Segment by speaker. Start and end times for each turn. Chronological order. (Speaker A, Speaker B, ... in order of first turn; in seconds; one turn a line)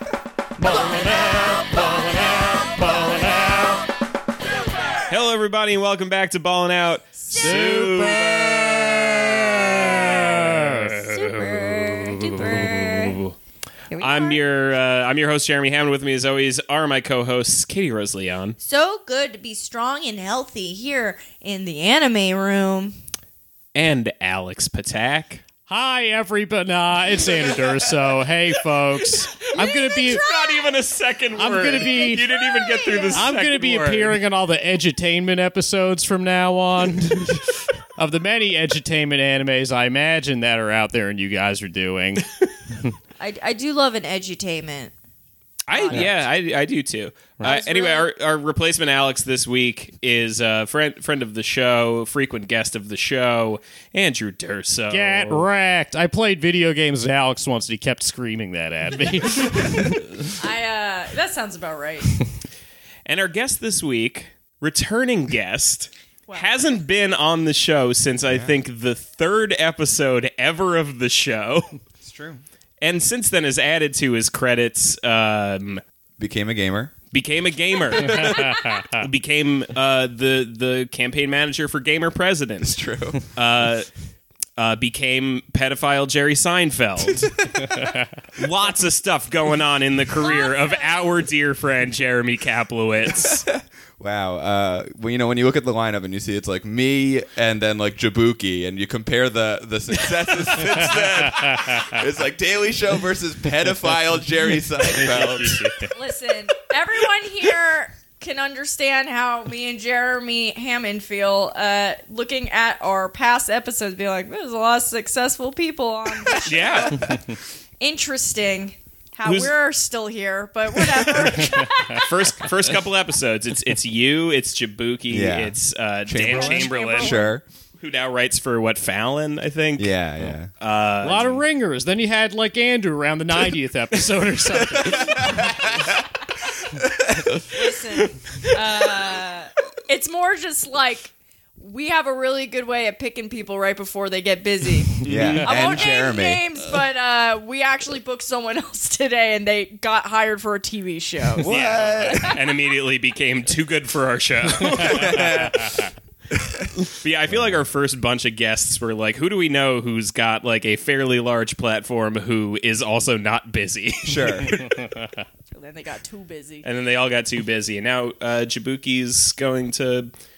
Speaker A: 0.6-3.8
Speaker B: 5.1-13.3
Speaker C: 7.3-7.7
Speaker A: 7.3-10.9
Speaker C: 9.7-10.3
Speaker C: 10.9-13.2
Speaker C: 13.9-14.4
Speaker B: 14.0-18.6
Speaker C: 18.6-22.9
Speaker B: 23.7-25.4
Speaker A: 25.7-30.2
Speaker C: 29.5-30.8
Speaker B: 30.0-34.2
Speaker A: 31.4-32.2
Speaker C: 32.2-33.2
Speaker A: 33.1-42.9
Speaker C: 43.2-44.9
Speaker B: 45.7-55.5
Speaker C: 45.7-46.1
Speaker C: 47.4-48.1
Speaker A: 54.9-60.3
Speaker C: 60.4-62.1
Speaker B: 63.0-71.8
Speaker D: 72.0-72.4
Speaker B: 72.8-75.8
Speaker D: 76.2-76.9
Speaker B: 77.1-83.9
Speaker D: 78.0-78.4
Speaker A: 78.1-78.8
Speaker D: 82.6-83.2
Speaker B: 84.6-87.3
Speaker D: 87.1-87.5
Speaker B: 88.3-93.4
Speaker C: 90.2-91.1
Speaker D: 93.1-105.7
Speaker B: 100.0-101.5
Speaker B: 104.9-105.9
Speaker C: 105.9-122.5
Speaker B: 116.4-117.1
Speaker B: 119.2-119.5
Speaker B: 120.9-127.2
Speaker D: 125.1-127.4
Speaker C: 126.3-127.3
Speaker A: 126.3-126.7
Speaker B: 127.8-129.9
Speaker D: 129.8-130.5
Speaker B: 130.6-131.4
Speaker A: 131.0-135.9
Speaker D: 134.7-136.0
Speaker D: 136.7-137.4
Speaker C: 137.5-152.3
Speaker B: 145.0-145.8
Speaker D: 145.0-146.4
Speaker D: 151.4-152.4
Speaker B: 151.4-155.8
Speaker D: 154.8-155.7
Speaker D: 156.3-156.7
Speaker B: 156.8-164.8
Speaker D: 157.3-157.6
Speaker D: 164.0-164.6
Speaker C: 165.5-166.7
Speaker B: 166.6-170.1